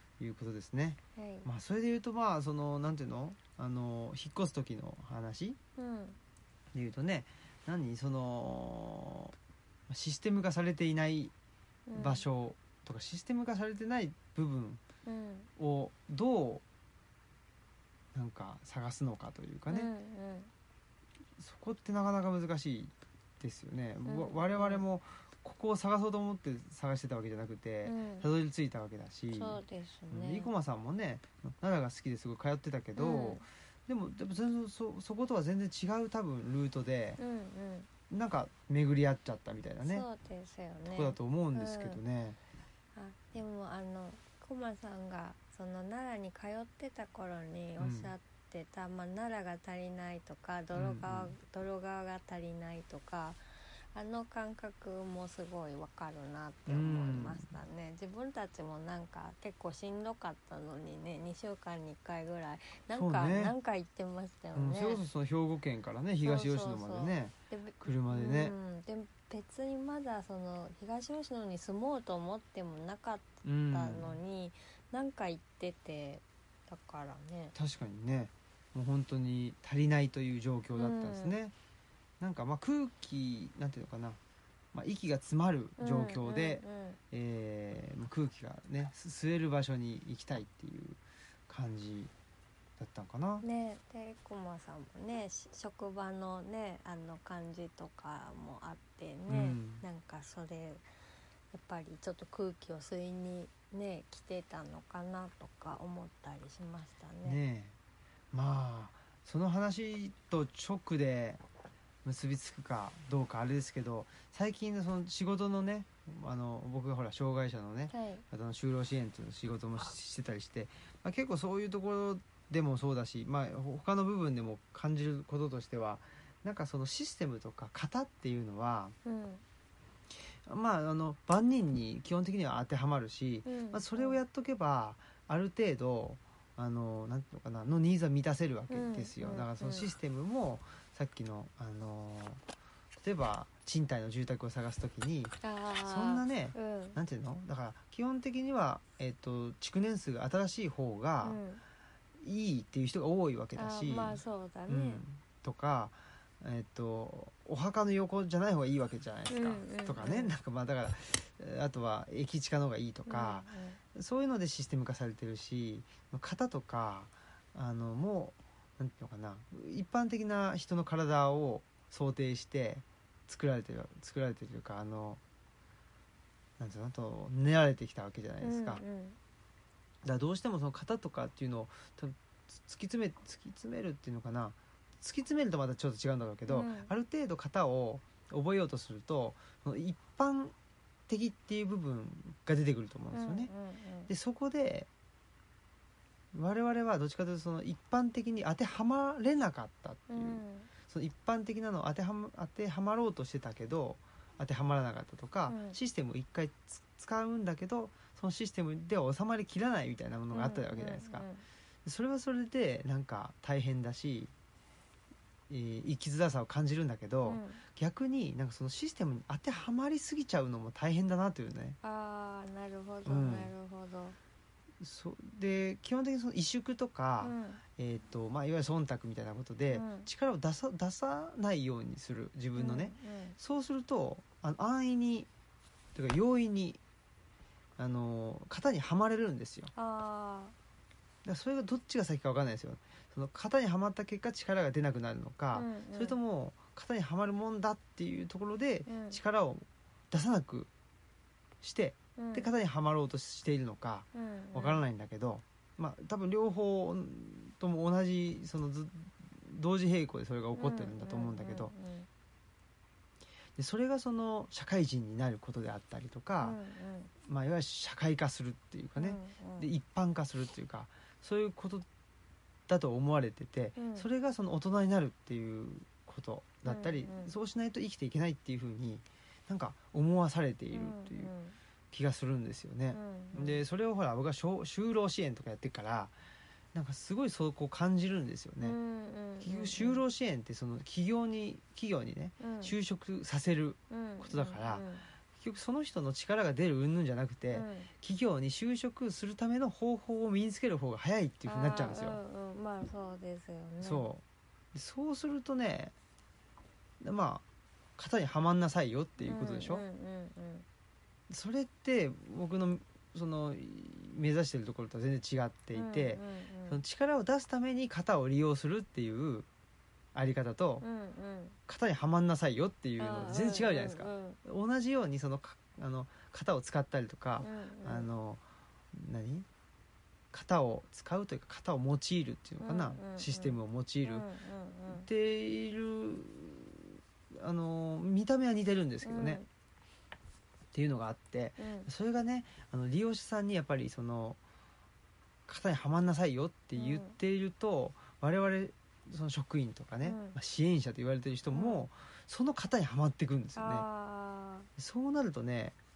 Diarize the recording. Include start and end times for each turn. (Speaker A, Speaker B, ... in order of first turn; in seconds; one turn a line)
Speaker A: 0.2-5.6
Speaker B: 1.2-1.5
Speaker B: 5.8-6.2
Speaker A: 6.7-9.3
Speaker A: 9.9-11.3
Speaker B: 11.9-12.3
Speaker A: 11.9-14.8
Speaker B: 15.1-15.5
Speaker A: 15.6-16.6
Speaker A: 18.1-19.9
Speaker B: 19.7-20.5
Speaker A: 21.4-29.6
Speaker B: 24.1-24.9
Speaker B: 27.9-28.3
Speaker B: 29.3-30.5
Speaker A: 30.1-37.2
Speaker B: 33.0-33.4
Speaker B: 37.2-37.9
Speaker A: 38.1-40.1
Speaker B: 39.8-42.0
Speaker A: 40.9-42.4
Speaker B: 43.0-65.0
Speaker A: 47.8-48.1
Speaker A: 50.8-51.4
Speaker A: 56.7-57.5
Speaker A: 62.9-63.5
Speaker A: 64.5-68.5
Speaker B: 66.2-77.6
Speaker A: 73.4-74.2
Speaker A: 77.5-81.5
Speaker B: 80.8-81.4
Speaker A: 82.2-84.2
Speaker A: 84.7-92.1
Speaker B: 85.8-87.0
Speaker A: 92.8-93.5
Speaker B: 93.4-100.8
Speaker A: 99.3-99.8
Speaker B: 101.5-107.4
Speaker A: 107.2-107.8
Speaker A: 108.3-111.4
Speaker A: 112.0-129.0
Speaker B: 117.9-118.2
Speaker B: 129.1-129.4
Speaker A: 130.4-142.4
Speaker B: 133.5-134.2
Speaker B: 138.7-139.9
Speaker A: 143.0-151.4
Speaker B: 145.4-147.0
Speaker B: 151.2-151.6
Speaker A: 152.2-175.2
Speaker B: 153.6-155.0
Speaker B: 159.3-160.3
Speaker B: 163.1-163.8
Speaker A: 176.6-178.8
Speaker B: 178.4-179.2
Speaker A: 180.0-190.6
Speaker B: 186.5-186.9
Speaker A: 191.1-193.5
Speaker B: 193.1-194.1
Speaker A: 194.1-194.9
Speaker A: 196.3-211.3
Speaker B: 200.1-200.7
Speaker B: 205.5-205.8
Speaker B: 210.3-211.4
Speaker A: 211.8-214.3
Speaker A: 215.5-221.8
Speaker B: 217.3-217.6
Speaker B: 221.8-224.2
Speaker A: 223.1-223.5
Speaker A: 224.8-235.3
Speaker B: 227.2-227.6
Speaker B: 229.7-230.1
Speaker B: 232.6-233.4
Speaker A: 235.9-236.8
Speaker A: 237.8-239.7
Speaker B: 239.8-240.5
Speaker A: 241.2-250.7
Speaker B: 245.5-246.2
Speaker B: 248.9-249.2
Speaker A: 251.6-261.7
Speaker B: 252.2-252.5
Speaker B: 254.2-254.8
Speaker B: 260.6-262.1
Speaker A: 263.6-266.6
Speaker B: 266.4-267.1
Speaker A: 267.2-271.9
Speaker B: 269.0-269.7
Speaker A: 272.7-281.3
Speaker B: 273.8-274.1
Speaker B: 276.6-277.4
Speaker B: 280.7-281.6
Speaker A: 281.9-286.2
Speaker B: 282.9-283.6
Speaker A: 286.7-288.8
Speaker B: 288.6-290.0
Speaker A: 289.4-294.9
Speaker B: 292.4-292.7
Speaker B: 293.9-295.1
Speaker A: 295.4-302.2
Speaker B: 297.5-297.9
Speaker B: 301.4-304.1
Speaker A: 303.8-304.2
Speaker A: 304.7-305.9
Speaker A: 307.0-307.4
Speaker A: 308.0-309.9
Speaker B: 309.2-310.7
Speaker A: 311.3-319.5
Speaker B: 315.7-316.8
Speaker A: 320.1-320.9
Speaker B: 320.8-321.6
Speaker A: 321.7-328.4
Speaker B: 323.0-324.4
Speaker B: 327.4-328.1
Speaker A: 328.9-329.5
Speaker A: 330.3-334.3
Speaker B: 332.6-335.1
Speaker A: 334.9-339.4
Speaker B: 339.0-339.5
Speaker A: 340.7-344.4
Speaker B: 341.6-341.9
Speaker A: 345.5-353.9
Speaker B: 346.8-347.2
Speaker B: 350.0-350.4
Speaker B: 351.5-351.9
Speaker B: 353.6-354.7
Speaker A: 354.8-355.8